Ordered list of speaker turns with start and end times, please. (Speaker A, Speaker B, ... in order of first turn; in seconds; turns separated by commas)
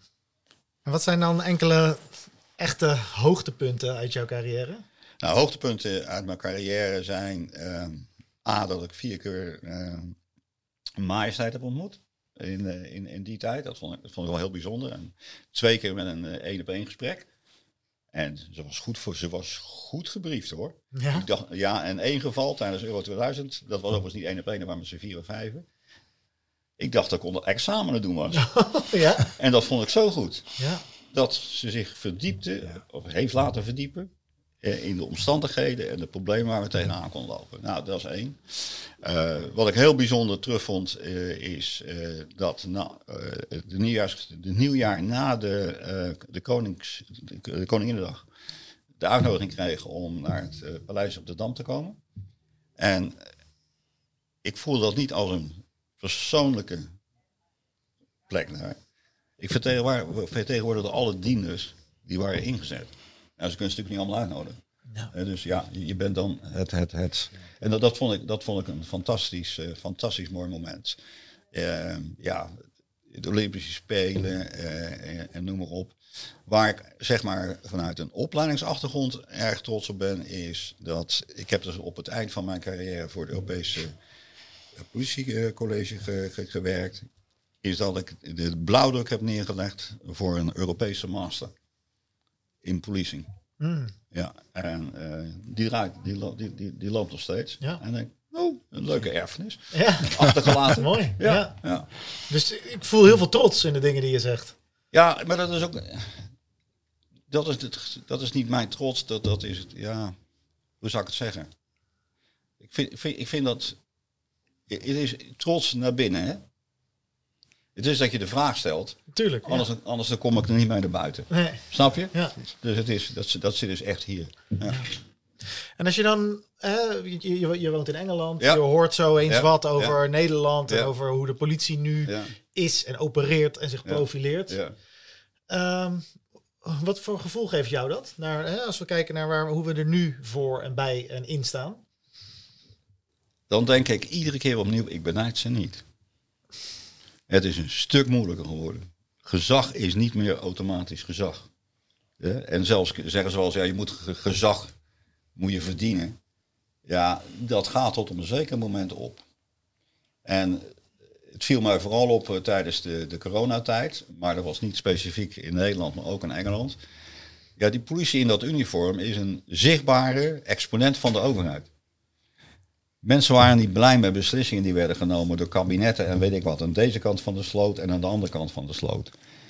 Speaker A: 0.9-4.8, Speaker B: 5.2-10.2, Speaker B: 11.0-17.3, Speaker B: 18.1-25.6, Speaker A: 20.9-21.3, Speaker B: 26.8-28.5, Speaker A: 28.4-29.3, Speaker B: 29.2-30.5, Speaker A: 30.6-30.8, Speaker B: 31.1-34.1, Speaker B: 34.6-48.2, Speaker B: 49.0-52.0, Speaker B: 52.8-53.2, Speaker B: 54.4-56.9, Speaker B: 58.3-58.8, Speaker B: 59.4-64.6, Speaker B: 65.1-71.0, Speaker B: 71.5-72.5, Speaker B: 73.1-83.9, Speaker B: 84.8-87.1, Speaker B: 87.6-91.5, Speaker B: 92.6-93.3, Speaker A: 93.6-93.9, Speaker B: 94.1-101.9, Speaker A: 99.7-101.6, Speaker A: 102.3-104.5, Speaker B: 104.9-106.2, Speaker B: 107.3-110.2, Speaker B: 110.8-111.5, Speaker B: 112.6-113.8, Speaker B: 114.7-116.4, Speaker B: 117.8-124.8, Speaker A: 119.1-119.7, Speaker A: 121.3-122.3, Speaker A: 125.8-134.6, Speaker B: 129.3-130.0, Speaker B: 132.1-132.3, Speaker B: 133.8-134.8, Speaker A: 135.5-136.1, Speaker A: 136.6-141.8, Speaker B: 143.5-145.8, Speaker B: 147.3-151.5, Speaker B: 152.2-154.7, Speaker B: 155.4-156.2, Speaker B: 156.9-159.2, Speaker B: 160.2-160.7, Speaker B: 161.3-166.8, Speaker B: 167.6-171.7, Speaker B: 173.0-179.1